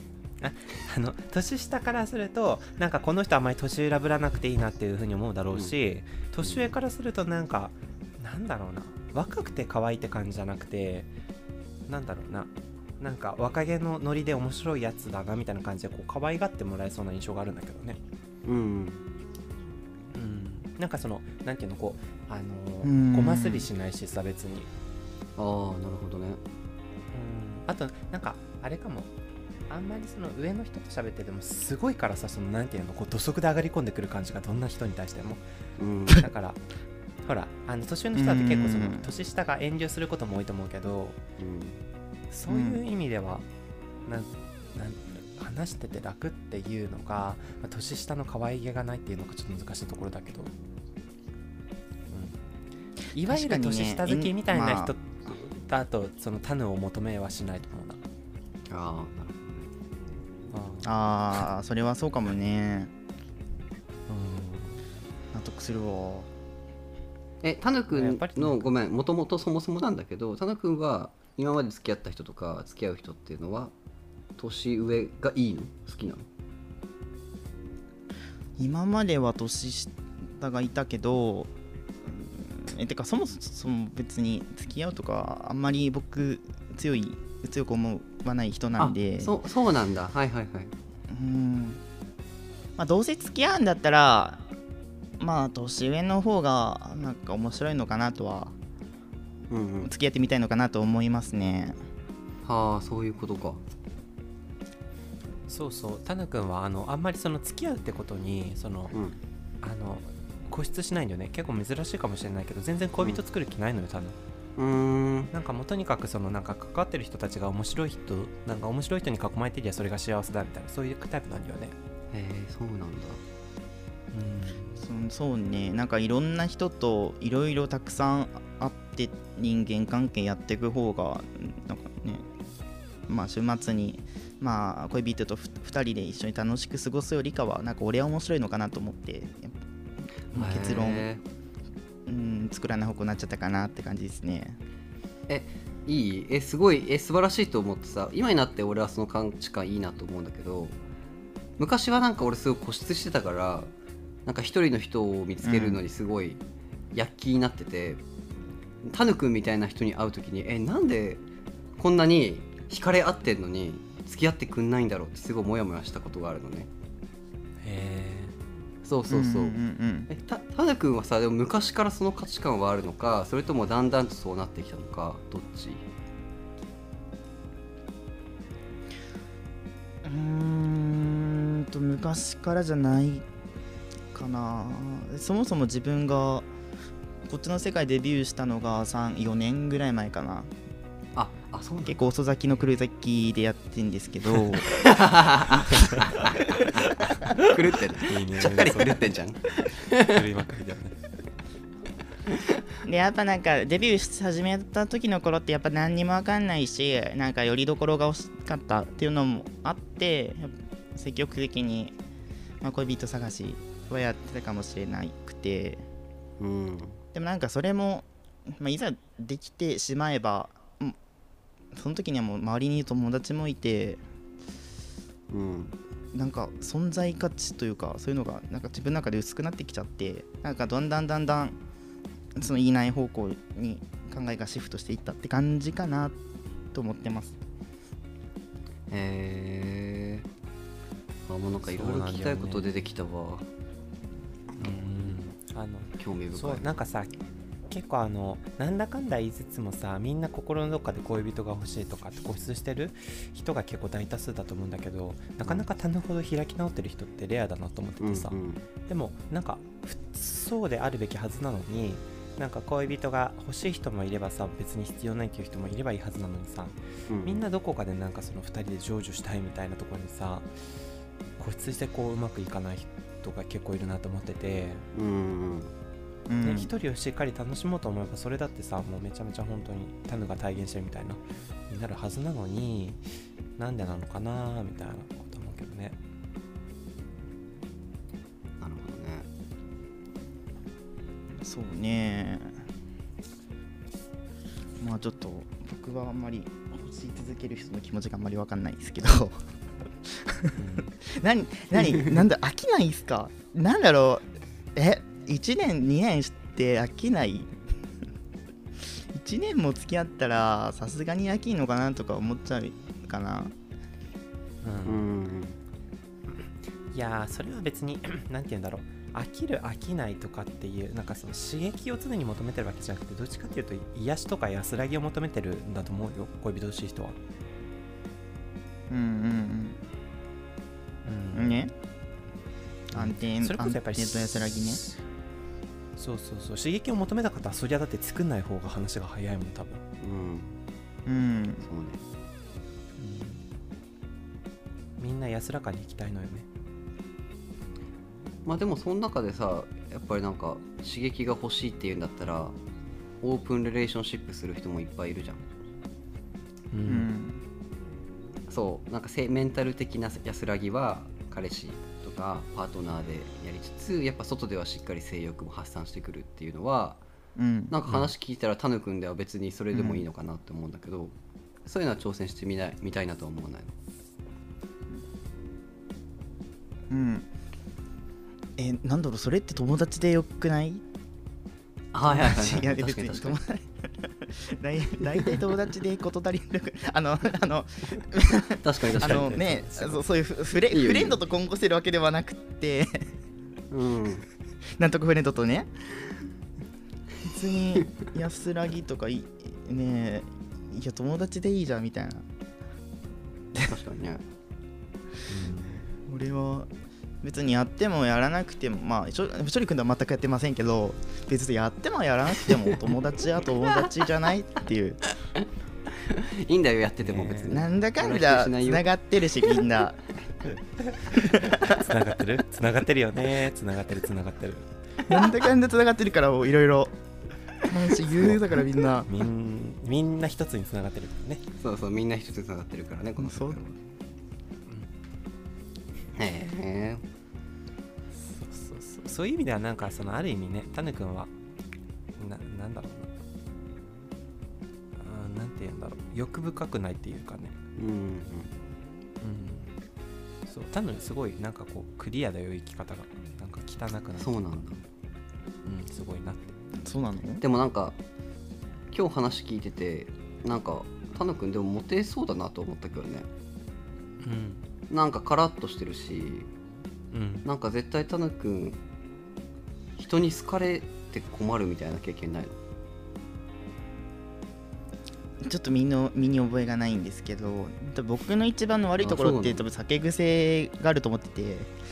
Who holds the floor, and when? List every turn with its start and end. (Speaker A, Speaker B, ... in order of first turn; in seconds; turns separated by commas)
Speaker A: 0.4-11.1, Speaker B: 6.4-6.7, Speaker A: 11.9-18.0, Speaker B: 18.4-19.0, Speaker A: 20.1-24.7, Speaker C: 22.8-23.7, Speaker B: 25.4-26.4, Speaker A: 27.1-29.1, Speaker A: 29.7-35.4, Speaker B: 35.8-36.2, Speaker A: 36.1-36.6, Speaker A: 37.2-41.2, Speaker C: 38.1-39.1, Speaker B: 41.4-41.8, Speaker A: 42.3-43.4, Speaker C: 42.5-42.8, Speaker A: 44.0-50.5, Speaker A: 52.1-52.4, Speaker A: 53.1-58.0, Speaker C: 53.2-54.9, Speaker B: 58.7-59.7, Speaker A: 60.5-60.9, Speaker C: 60.8-62.9, Speaker A: 64.1-64.8, Speaker C: 65.3-66.3, Speaker B: 67.4-73.7, Speaker A: 67.9-68.7, Speaker B: 74.4-76.3, Speaker C: 78.6-81.5, Speaker C: 82.0-89.3, Speaker B: 88.8-90.7, Speaker C: 91.1-91.8, Speaker C: 92.8-94.4, Speaker C: 95.2-98.5, Speaker B: 99.5-99.9, Speaker C: 99.8-101.8, Speaker B: 102.4-103.6, Speaker A: 105.5-108.9, Speaker A: 109.6-114.2, Speaker B: 114.6-115.3, Speaker A: 115.3-121.7, Speaker B: 122.1-123.2, Speaker A: 124.1-124.8, Speaker C: 124.8-132.3, Speaker C: 133.1-139.6, Speaker C: 140.3-141.1, Speaker B: 140.3-141.2, Speaker C: 142.1-144.6, Speaker B: 145.3-150.7, Speaker B: 151.6-153.7, Speaker B: 154.2-156.4, Speaker C: 155.4-155.8, Speaker B: 156.9-158.0, Speaker B: 158.8-161.2, Speaker B: 161.8-166.7, Speaker A: 167.6-168.3, Speaker B: 168.8-175.8, Speaker C: 169.1-170.1, Speaker C: 180.0-183.3, Speaker C: 184.1-186.5, Speaker C: 187.2-190.5, Speaker B: 191.2-192.0, Speaker C: 191.8-194.9, Speaker B: 194.7-200.2, Speaker A: 195.6-199.2, Speaker A: 199.9-200.9, Speaker C: 202.8-211.9, Speaker C: 212.6-215.8, Speaker B: 216.4-217.0, Speaker C: 217.1-221.0, Speaker C: 221.7-224.0, Speaker B: 225.3-225.8, Speaker C: 226.1-231.6, Speaker C: 232.3-236.2, Speaker C: 236.7-237.3, Speaker B: 238.9-240.2, Speaker B: 241.3-243.4, Speaker A: 241.6-242.7, Speaker A: 244.6-247.1, Speaker B: 246.0-246.7, Speaker A: 247.7-270.5, Speaker B: 258.0-258.6, Speaker B: 267.1-267.4, Speaker A: 271.4-274.8, Speaker B: 274.9-275.7, Speaker C: 276.3-276.7, Speaker A: 276.4-283.0, Speaker A: 283.6-286.0, Speaker B: 288.6-289.3, Speaker C: 291.4-292.6, Speaker C: 294.8-299.4, Speaker C: 300.0-307.5, Speaker A: 300.5-300.9, Speaker C: 308.9-313.5, Speaker A: 314.6-315.1, Speaker B: 314.9-315.6, Speaker A: 316.9-327.2, Speaker C: 328.9-329.8, Speaker A: 331.0-331.7, Speaker C: 331.3-331.7, Speaker A: 332.9-335.0, Speaker C: 332.9-334.8, Speaker A: 336.0-339.8, Speaker B: 340.0-340.5, Speaker C: 341.1-341.6, Speaker B: 341.6-342.0, Speaker A: 343.0-343.4, Speaker A: 345.0-346.5, Speaker B: 348.4-352.6, Speaker B: 353.2-355.4, Speaker A: 356.7-357.1, Speaker C: 356.9-357.4, Speaker B: 358.5-367.0, Speaker C: 367.4-367.7, Speaker B: 367.7-371.1, Speaker A: 367.9-368.1, Speaker C: 369.7-370.1, Speaker B: 371.6-373.7, Speaker C: 376.9-377.3, Speaker C: 378.6-380.8, Speaker B: 381.9-383.4, Speaker C: 382.0-393.1, Speaker B: 388.6-389.4, Speaker A: 389.0-389.9, Speaker B: 390.7-391.2, Speaker B: 393.7-394.2, Speaker C: 394.8-395.8, Speaker C: 397.2-402.3, Speaker B: 403.6-404.2, Speaker A: 405.3-405.9, Speaker C: 406.1-406.7, Speaker C: 407.2-415.0, Speaker B: 415.4-419.6, Speaker A: 417.0-417.6, Speaker C: 417.5-420.0, Speaker A: 420.5-424.6, Speaker C: 421.1-421.6, Speaker C: 425.1-426.9, Speaker C: 427.6-429.1, Speaker A: 428.1-428.5, Speaker A: 429.1-431.4, Speaker B: 431.6-433.7, Speaker C: 433.2-433.6, Speaker B: 436.1-437.0, Speaker A: 438.1-441.3, Speaker A: 442.2-443.1, Speaker A: 445.0-447.5, Speaker B: 447.8-448.5, Speaker A: 449.2-449.7, Speaker A: 450.5-454.4, Speaker B: 454.2-454.8, Speaker A: 455.6-456.5, Speaker C: 456.8-457.4, Speaker B: 457.4-458.0, Speaker B: 458.9-463.3, Speaker A: 464.2-464.6, Speaker B: 464.9-466.5, Speaker A: 467.1-467.4, Speaker B: 467.4-468.8, Speaker B: 470.0-472.5, Speaker C: 475.4-481.7, Speaker B: 479.0-479.6